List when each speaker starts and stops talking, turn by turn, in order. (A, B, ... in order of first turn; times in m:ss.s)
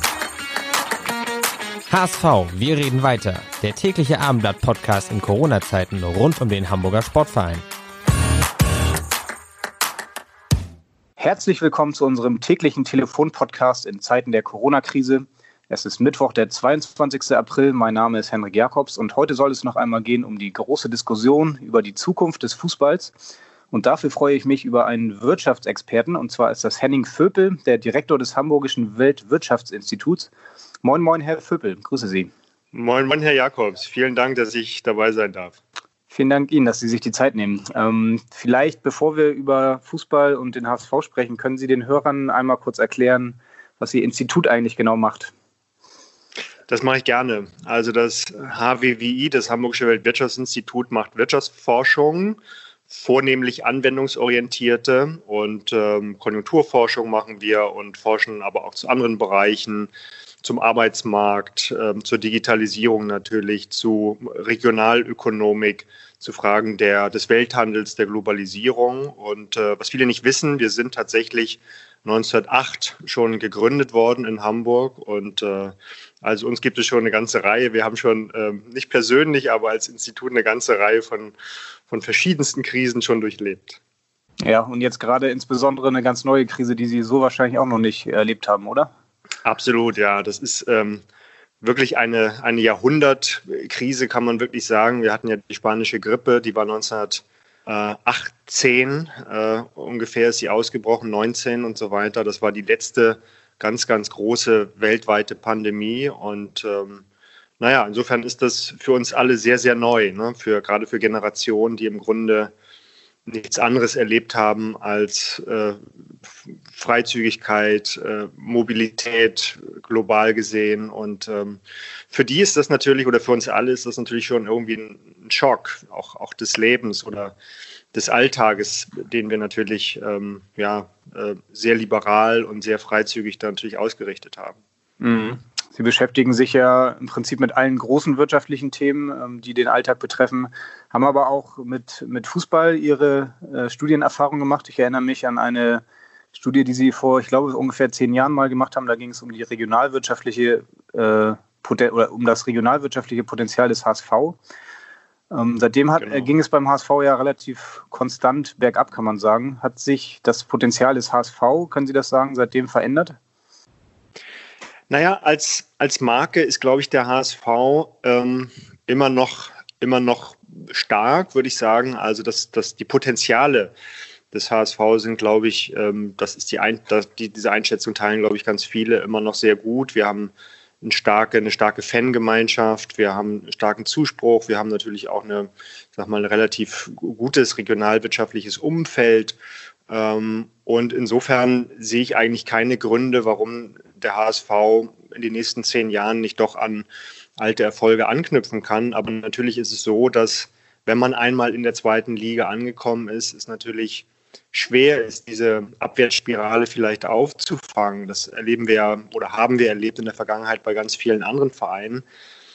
0:01.9-0:07.6 A
0:11.2-0:23.1 B
0:23.7-0:30.3 B
0:30.8-0:32.3 B
0:32.7-0:35.6 C
0:36.1-0:45.3 B
0:46.7-0:52.4 C
0:52.9-0:59.9 C
1:00.4-1:21.3 C
1:21.9-1:23.8 C
1:24.4-1:28.9 B
1:29.4-1:31.0 C
1:31.6-1:47.0 C
1:47.6-1:52.5 C
1:53.2-1:55.8 C
1:56.7-2:07.3 C
2:07.9-2:14.6 C
2:15.0-2:34.4 B
2:35.3-2:43.2 B
2:36.0-2:36.3 C
2:44.9-2:53.7 C
2:54.3-3:09.4 C
3:09.9-3:32.0 C